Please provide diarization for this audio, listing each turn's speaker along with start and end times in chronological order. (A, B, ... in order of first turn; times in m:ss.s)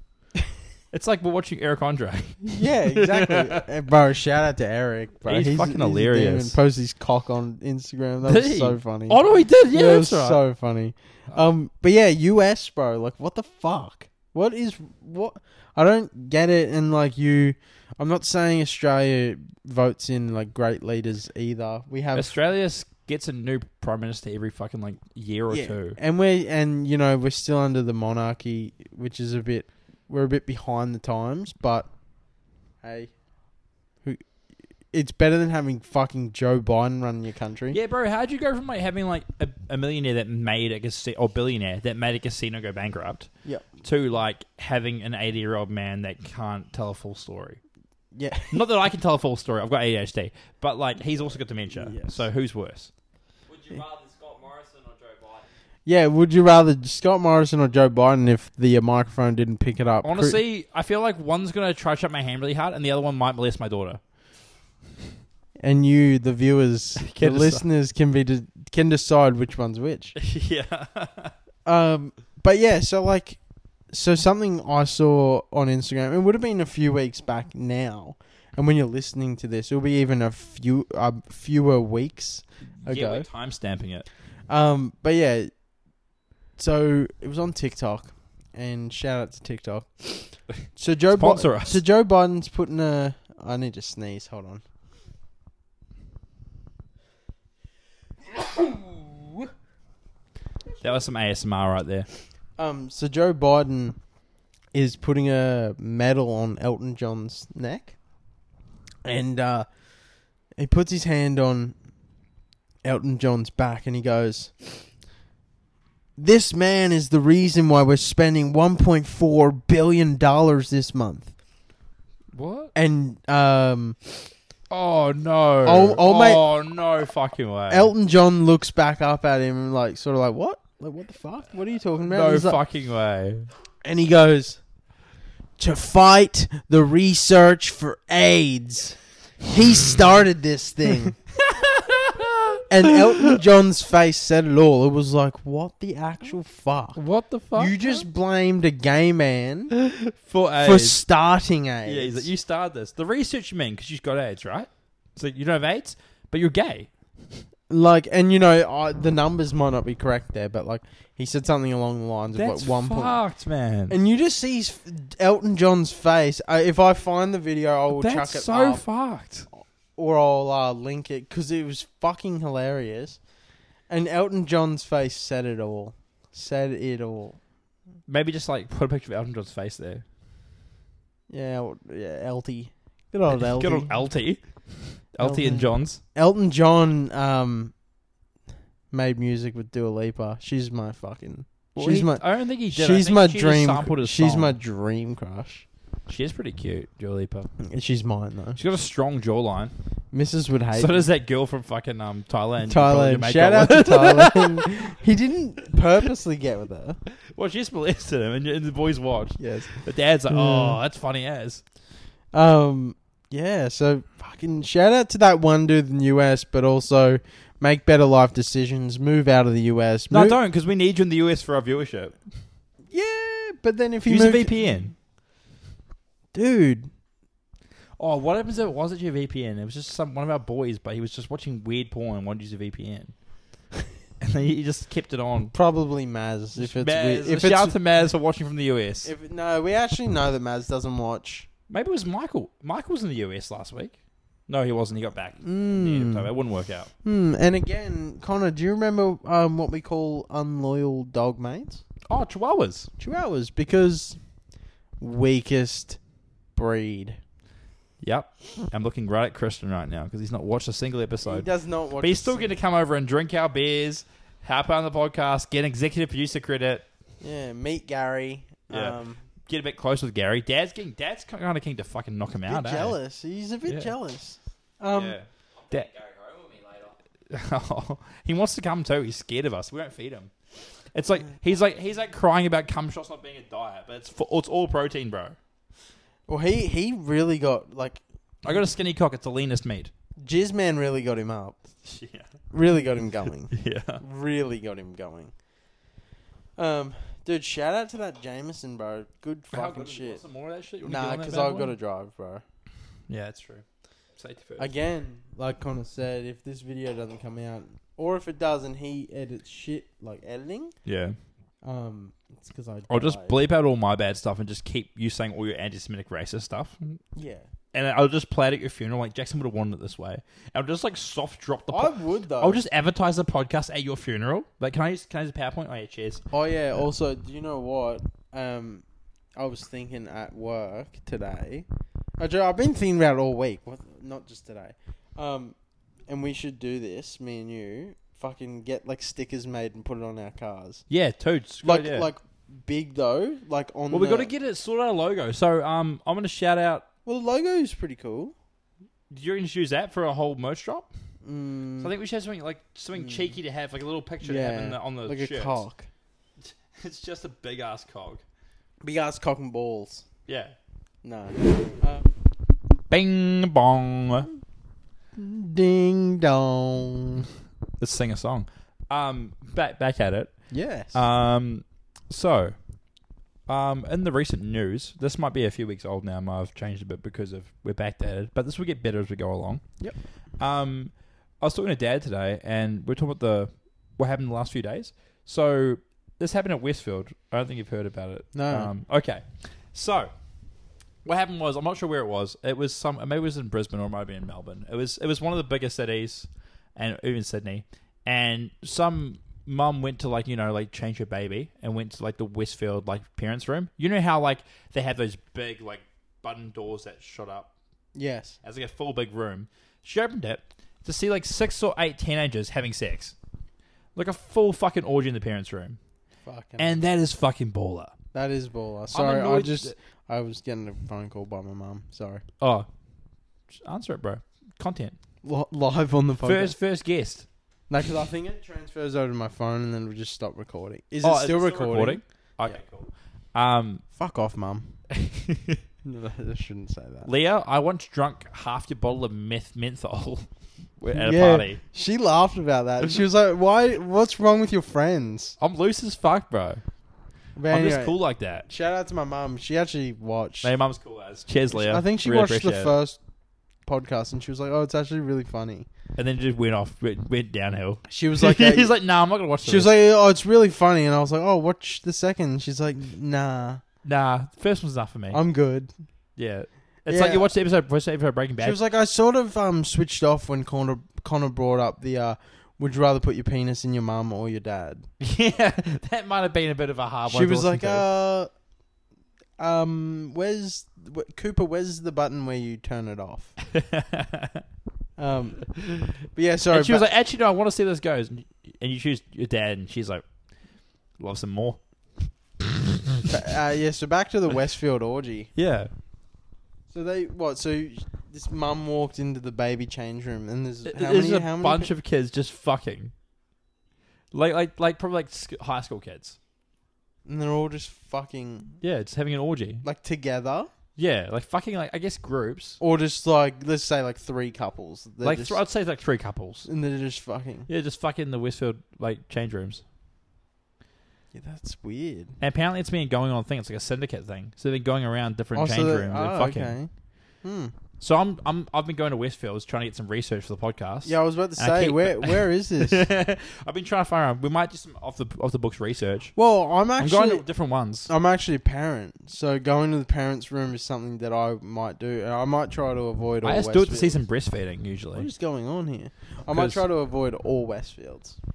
0:00.9-0:03.6 A
0:02.5-0:09.2 B
0:05.2-0:06.6 A
0:08.3-0:10.4 A
0:09.7-0:22.3 B
0:22.1-0:26.0 A
0:25.5-0:31.9 B
0:32.8-0:33.1 B
0:34.9-0:37.8 B
0:37.7-0:47.6 A
0:48.1-0:48.7 B
0:48.5-0:52.9 A
0:51.7-0:52.2 B
0:53.5-0:55.5 C
0:55.9-1:00.4 B
1:00.0-1:04.0 A
1:05.6-1:10.2 B
1:07.0-1:07.6 A
1:10.2-1:11.4 A
1:11.6-1:13.4 B
1:13.9-1:23.3 B
1:22.8-1:24.1 A
1:24.5-1:25.5 B
1:26.6-1:34.6 B
1:31.1-1:31.8 A
1:38.4-1:39.4 B
1:40.8-1:42.1 A
1:42.6-1:44.0 B
1:44.7-1:48.0 B
1:49.0-1:49.7 B
1:50.6-1:51.8 B
1:52.8-1:54.8 B
1:56.2-2:01.3 B
2:02.3-2:02.7 A
2:02.7-2:04.0 B
2:04.7-2:07.9 A
2:05.6-2:06.4 B
2:07.7-2:12.6 B
2:12.0-2:13.5 A
2:13.8-2:14.6 B
2:15.6-2:21.2 B
2:21.4-2:22.6 A
2:22.7-2:27.0 B
2:27.0-2:28.1 A
2:27.5-2:29.8 B
2:29.7-2:31.0 A
2:30.6-2:32.3 B
2:31.8-2:37.4 A
2:37.7-2:43.2 B
2:42.4-2:44.0 A
2:43.9-2:48.9 B
2:47.9-2:49.5 A
2:49.5-2:53.2 B
2:53.9-2:57.4 B
2:58.1-3:00.0 A
3:01.3-3:03.9 B
3:03.3-3:06.0 A
3:05.2-3:07.7 B
3:08.9-3:15.7 B
3:11.8-3:14.6 A
3:16.1-3:17.5 A
3:17.6-3:18.6 B
3:18.6-3:19.7 A
3:20.1-3:21.1 B
3:20.7-3:24.7 A
3:22.7-3:27.0 B
3:27.2-3:31.6 A
3:29.4-3:30.8 B
3:32.3-3:40.4 B
3:40.1-3:42.2 A
3:42.9-3:44.9 B
3:44.1-3:44.9 A
3:46.3-3:46.9 B
3:48.0-3:53.1 A
3:54.2-3:55.5 A
3:55.5-3:57.8 B
3:56.6-3:59.1 A
3:59.0-4:01.5 B
4:01.7-4:04.0 A
4:04.5-4:06.9 A
4:05.4-4:06.3 B
4:07.0-4:11.8 B
4:12.1-4:12.9 A
4:13.0-4:14.2 B
4:15.0-4:16.0 B
4:16.6-4:17.2 B
4:18.0-4:21.5 A
4:21.2-4:22.5 B
4:22.0-4:26.8 A
4:27.2-4:29.2 B
4:28.7-4:33.0 A
4:32.5-4:35.2 B
4:33.7-4:33.9 A
4:34.9-4:35.9 A
4:35.6-4:37.0 C
4:37.3-4:40.3 A
4:40.9-4:45.4 A
4:46.3-4:48.0 B
4:48.4-4:49.9 A
4:50.2-4:51.6 B
4:51.8-4:52.3 A
4:52.5-4:55.3 B
4:53.5-4:54.0 A
4:56.6-5:00.2 B
4:59.5-5:01.8 A
5:00.8-5:02.4 B
5:03.1-5:03.6 A
5:04.2-5:04.7 A
5:04.6-5:10.8 B
5:10.8-5:11.2 A
5:11.6-5:13.4 B
5:12.9-5:17.0 A
5:17.2-5:17.5 B
5:17.7-5:26.2 A
5:21.7-5:22.6 B
5:26.3-5:28.8 B
5:29.4-5:31.7 B
5:32.2-5:35.6 B
5:36.1-5:40.8 B
5:40.9-5:42.1 A
5:41.6-5:44.3 B
5:43.9-5:46.9 A
5:47.1-5:48.3 B
5:49.1-5:50.9 A
5:51.2-5:51.9 B
5:51.8-5:55.6 A
5:53.0-5:53.3 B
5:54.2-5:55.9 B
5:56.4-5:58.2 A
5:58.8-6:00.0 B
6:00.3-6:00.6 A
6:01.0-6:02.1 B
6:02.9-6:04.3 A
6:05.2-6:07.3 B
6:07.8-6:12.6 A
6:10.5-6:11.0 B
6:13.5-6:19.8 A
6:20.4-6:30.1 A
6:28.3-6:28.7 B
6:31.0-6:47.5 A
6:48.0-6:48.4 B
6:48.4-6:53.2 A
6:54.0-6:55.8 A
6:56.2-6:56.8 B
6:56.6-6:58.0 A
6:58.1-7:02.2 B
6:58.9-6:59.8 A
7:02.4-7:02.7 A
7:03.5-7:05.0 A
7:05.2-7:06.6 B
7:06.2-7:07.3 A
7:07.7-7:12.6 B
7:11.0-7:13.8 A
7:13.9-7:14.8 B
7:14.9-7:15.6 A
7:15.8-7:17.1 B
7:17.1-7:20.3 A
7:20.8-7:21.6 A
7:20.9-7:25.4 B
7:25.4-7:26.6 A
7:27.4-7:30.5 B
7:27.5-7:28.5 A
7:30.4-7:32.7 A
7:31.5-7:33.0 B
7:33.6-7:35.7 B
7:36.0-7:39.7 A
7:37.9-7:38.7 B
7:39.4-7:43.6 B
7:43.8-7:45.2 A
7:45.1-7:45.7 B
7:46.2-7:48.6 A
7:46.9-7:47.3 B
7:48.4-7:54.9 B
7:55.0-7:57.8 A
7:57.1-7:58.3 B
7:59.4-8:03.4 B
8:03.5-8:04.4 A
8:05.0-8:06.9 B
8:06.5-8:10.0 A
8:11.0-8:11.6 A
8:13.1-8:15.3 B
8:15.4-8:15.7 A
8:16.7-8:21.7 B
8:20.6-8:22.9 A
8:24.1-8:26.2 A
8:27.1-8:28.6 B
8:28.6-8:29.6 A
8:29.6-8:30.5 B
8:30.8-8:32.6 A
8:32.6-8:35.4 B
8:35.0-8:36.5 A
8:36.5-8:37.5 B
8:37.5-8:39.6 A
8:41.1-8:42.2 B
8:42.2-8:46.6 A
8:45.4-8:46.7 B
8:47.2-8:47.5 B
8:47.8-8:56.2 A
8:50.8-8:52.8 B
8:56.2-8:57.2 B
8:56.8-8:57.9 A
8:57.9-9:04.0 B
9:03.2-9:05.1 A
9:05.0-9:08.2 B
9:06.3-9:06.6 A